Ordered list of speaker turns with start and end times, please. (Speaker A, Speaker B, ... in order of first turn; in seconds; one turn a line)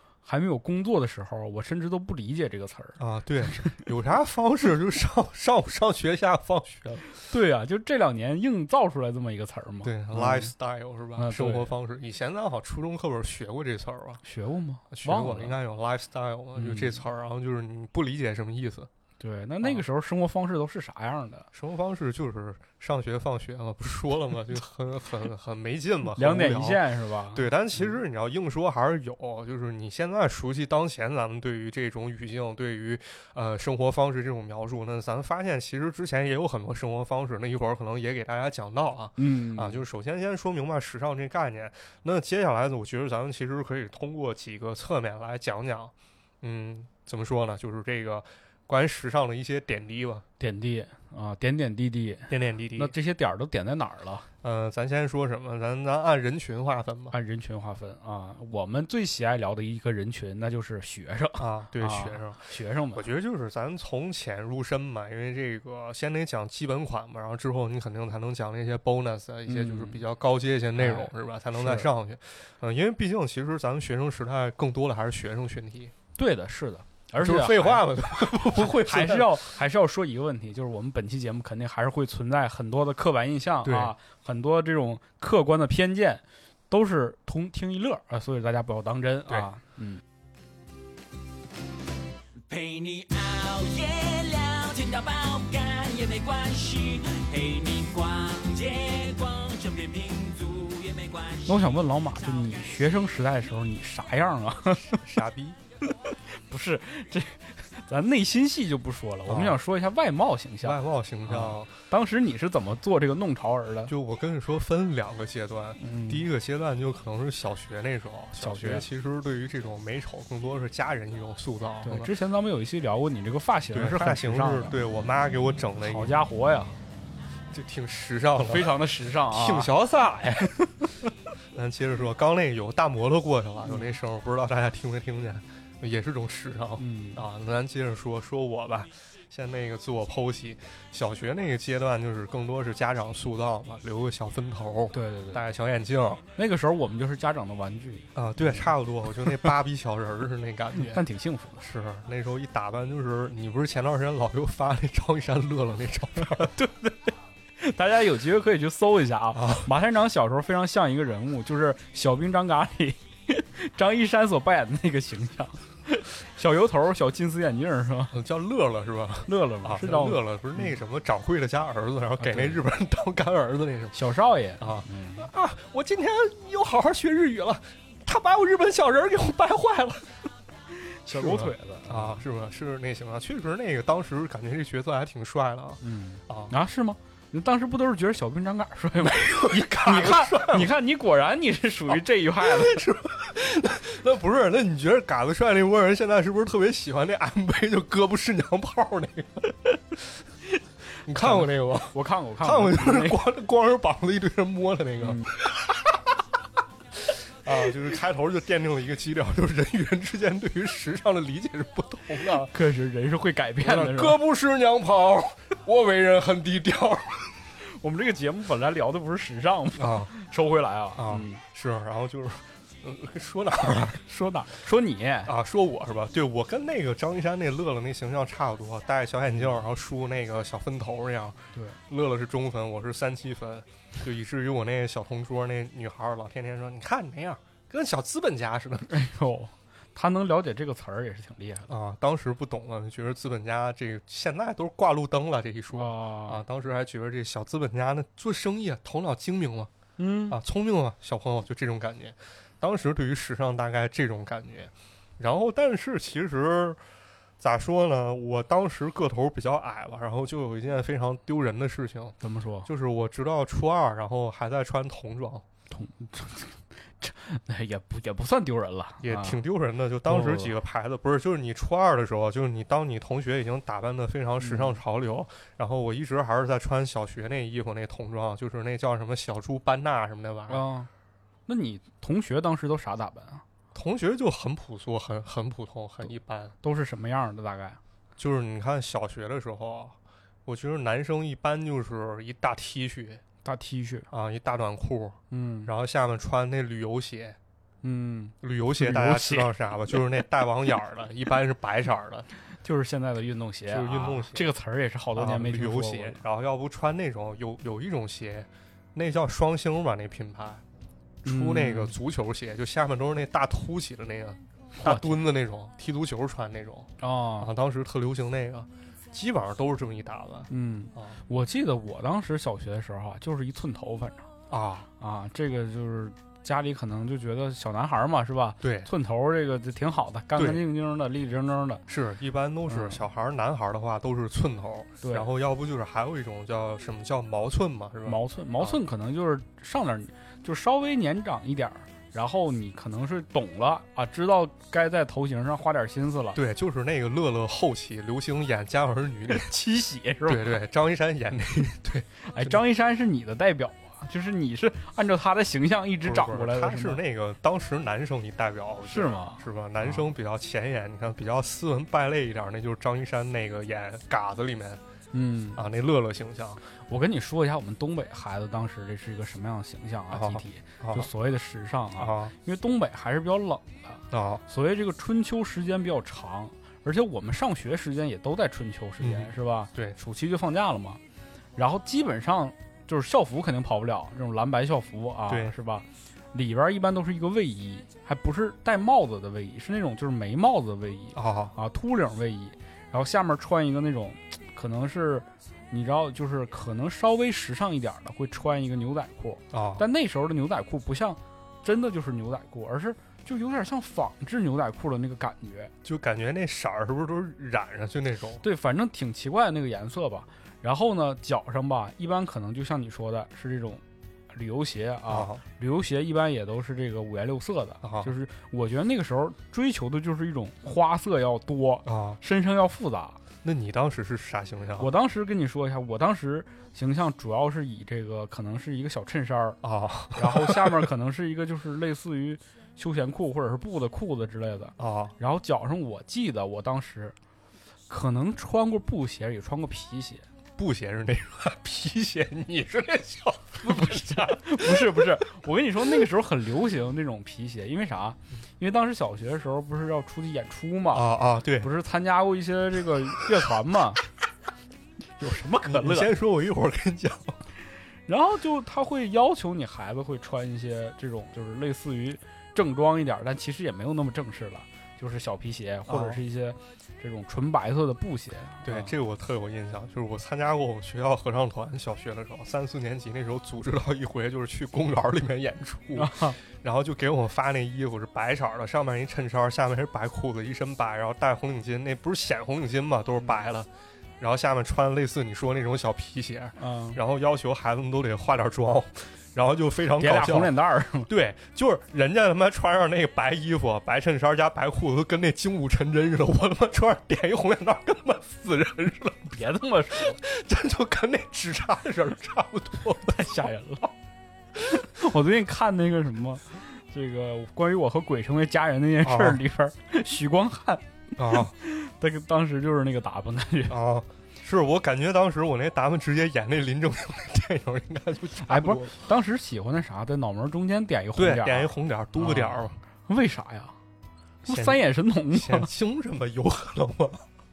Speaker A: 0.2-3.0
Speaker B: 3.0-7.1
Speaker A: 7.2-10.5
Speaker B: 9.8-14.2
Speaker A: 11.2-11.7
Speaker A: 14.2-15.5
Speaker B: 14.9-18.9
Speaker A: 16.6-17.0
Speaker A: 19.2-21.5
Speaker B: 21.5-50.2
Speaker A: 26.2-27.4
Speaker A: 39.2-39.8
Speaker A: 50.4-54.3
Speaker B: 52.3-52.9
Speaker B: 54.4-57.1
Speaker A: 57.1-63.0
Speaker B: 61.4-75.9
Speaker A: 69.5-70.0
Speaker A: 70.8-71.9
Speaker A: 76.2-77.9
Speaker B: 77.2-79.5
Speaker A: 78.5-90.0
Speaker B: 83.6-83.9
Speaker C: 92.5-102.7
Speaker A: 101.5-105.0
Speaker B: 104.7-105.6
Speaker A: 106.0-113.9
Speaker B: 109.2-109.6
Speaker B: 110.6-111.7
Speaker B: 113.9-122.1
Speaker A: 115.8-116.3
Speaker A: 118.4-118.8
Speaker A: 121.8-124.8
Speaker B: 123.7-126.1
Speaker A: 125.8-126.8
Speaker B: 127.5-128.8
Speaker A: 128.3-129.7
Speaker B: 129.3-130.6
Speaker A: 130.4-130.7
Speaker B: 131.5-146.2
Speaker A: 136.8-137.2
Speaker A: 144.9-145.4
Speaker A: 146.3-148.7
Speaker B: 148.1-151.0
Speaker A: 150.8-151.6
Speaker B: 151.6-156.5
Speaker A: 156.4-168.1
Speaker B: 159.3-159.7
Speaker B: 168.1-174.0
Speaker A: 169.2-170.7
Speaker A: 172.2-172.6
Speaker A: 173.9-175.3
Speaker B: 174.6-180.2
Speaker A: 181.0-182.2
Speaker B: 181.1-186.5
Speaker A: 185.8-192.9
Speaker B: 189.0-190.7
Speaker B: 192.4-199.5
Speaker B: 201.1-206.0
Speaker A: 201.2-203.2
Speaker A: 205.0-205.3
Speaker B: 207.1-212.5
Speaker A: 212.3-214.2
Speaker B: 213.6-217.3
Speaker A: 217.6-221.4
Speaker B: 219.8-220.1
Speaker B: 220.9-224.0
Speaker A: 224.0-225.3
Speaker B: 225.2-239.0
Speaker A: 238.9-241.7
Speaker B: 241.7-249.7
Speaker A: 245.7-246.4
Speaker A: 250.0-250.4
Speaker B: 250.3-256.8
Speaker B: 257.4-265.4
Speaker A: 262.2-262.7
Speaker A: 265.7-269.4
Speaker B: 269.0-280.6
Speaker A: 270.1-270.5
Speaker A: 274.4-274.8
Speaker A: 280.5-280.9
Speaker A: 281.5-283.4
Speaker B: 283.7-286.6
Speaker A: 286.6-287.8
Speaker B: 288.2-293.2
Speaker A: 293.4-294.1
Speaker B: 294.1-297.4
Speaker A: 295.3-295.7
Speaker A: 297.8-299.5
Speaker B: 298.4-302.3
Speaker A: 302.6-306.2
Speaker B: 303.7-304.5
Speaker B: 305.1-310.6
Speaker B: 311.2-321.2
Speaker A: 311.2-311.9
Speaker A: 314.8-315.2
Speaker A: 317.0-317.5
Speaker A: 320.5-324.3
Speaker B: 324.5-324.9
Speaker A: 325.0-331.8
Speaker B: 328.6-328.9
Speaker B: 330.4-330.6
Speaker B: 331.9-338.8
Speaker A: 332.7-333.1
Speaker A: 335.0-335.3
Speaker A: 338.1-346.4
Speaker B: 346.3-349.5
Speaker A: 349.3-350.6
Speaker B: 350.2-352.6
Speaker A: 352.3-357.0
Speaker B: 356.0-364.8
Speaker A: 358.9-360.1
Speaker A: 365.1-365.6
Speaker B: 365.5-366.6
Speaker A: 366.9-381.0
Speaker B: 370.1-371.1
Speaker B: 372.0-372.3
Speaker B: 374.1-374.4
Speaker B: 379.0-380.0
Speaker A: 381.6-405.7
Speaker B: 385.3-385.5
Speaker B: 391.1-391.5
Speaker B: 399.5-399.8
Speaker B: 405.8-408.4
Speaker A: 408.4-423.2
Speaker B: 415.1-415.4
Speaker B: 417.8-418.1
Speaker B: 421.9-422.2
Speaker B: 423.4-424.9
Speaker A: 424.8-429.6
Speaker B: 429.6-430.9
Speaker A: 430.1-437.1
Speaker B: 434.8-435.1
Speaker A: 437.9-440.2
Speaker B: 440.6-445.3
Speaker A: 443.6-454.0
Speaker B: 450.9-451.7
Speaker A: 455.2-456.1
Speaker B: 455.6-457.4
Speaker A: 458.1-468.9
Speaker B: 465.9-466.2
Speaker B: 468.6-499.4
Speaker A: 475.9-476.4
Speaker A: 486.6-487.0
Speaker A: 490.0-491.1
Speaker A: 499.3-500.2
Speaker B: 499.9-503.5
Speaker A: 503.0-503.9
Speaker A: 504.6-513.8
Speaker B: 509.0-509.4
Speaker B: 511.2-511.5
Speaker B: 513.7-519.0
Speaker A: 518.4-523.8
Speaker B: 521.1-522.8
Speaker A: 524.4-525.7
Speaker B: 524.4-527.2